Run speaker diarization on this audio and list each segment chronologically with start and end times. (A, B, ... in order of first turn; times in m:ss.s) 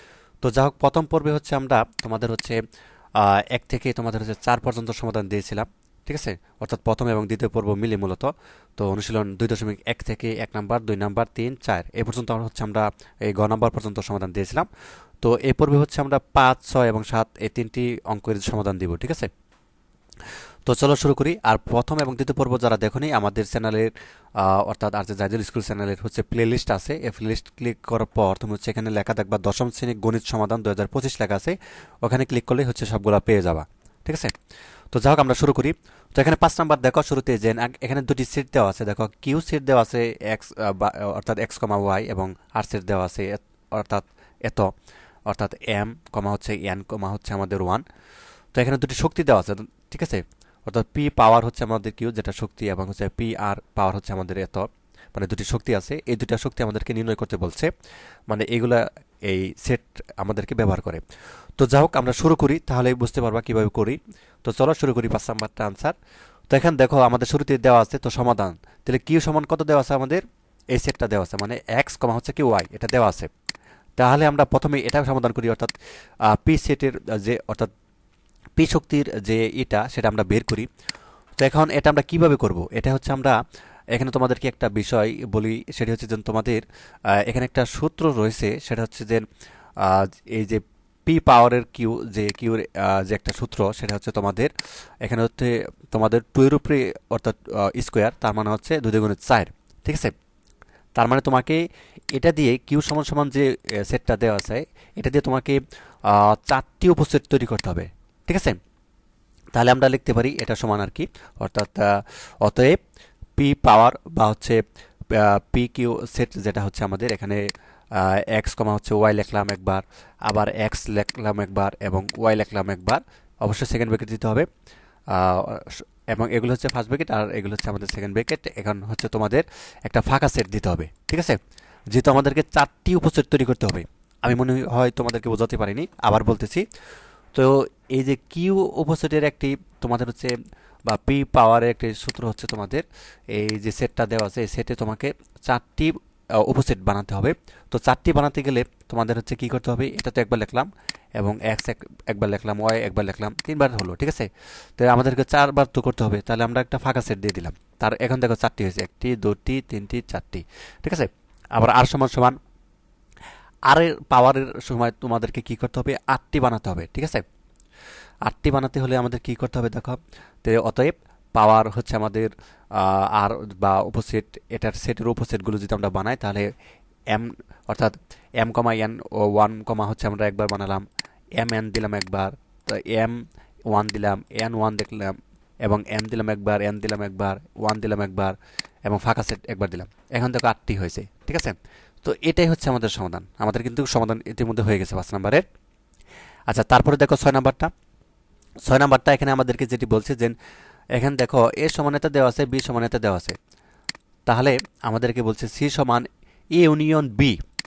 0:00.4-0:02.6 A
0:03.2-0:14.7 A
0:15.2-0:19.3 A
0:20.7-0:34.3 A
0:34.9-0:44.7 A
0:45.3-0:47.8 A
0:48.5-0:57.7 A
0:58.3-1:01.0 A
1:01.6-1:05.9 A
1:06.5-1:13.3 A
1:14.0-1:15.7 A
1:16.3-1:17.7 A
1:18.6-1:20.7 A
1:21.4-1:23.4 A
1:23.9-1:26.6 A
1:27.1-1:29.2 A
1:29.8-1:34.5 A
1:35.0-1:40.1 A
1:41.0-1:41.6 A
1:42.1-1:48.6 A
1:49.5-1:52.8 A
1:53.4-1:57.4 A
1:57.9-2:04.5 A
2:05.1-2:11.4 A
2:11.9-2:16.6 A
2:17.3-2:42.4 A
2:43.7-2:47.2 A
2:48.2-2:56.4 A
2:57.1-3:00.8 A
3:01.4-3:03.2 A
3:03.7-3:08.3 A
3:08.8-3:15.4 A
3:16.5-3:17.7 A
3:18.6-3:20.3 A
3:20.9-3:23.4 A
3:24.3-3:27.4 A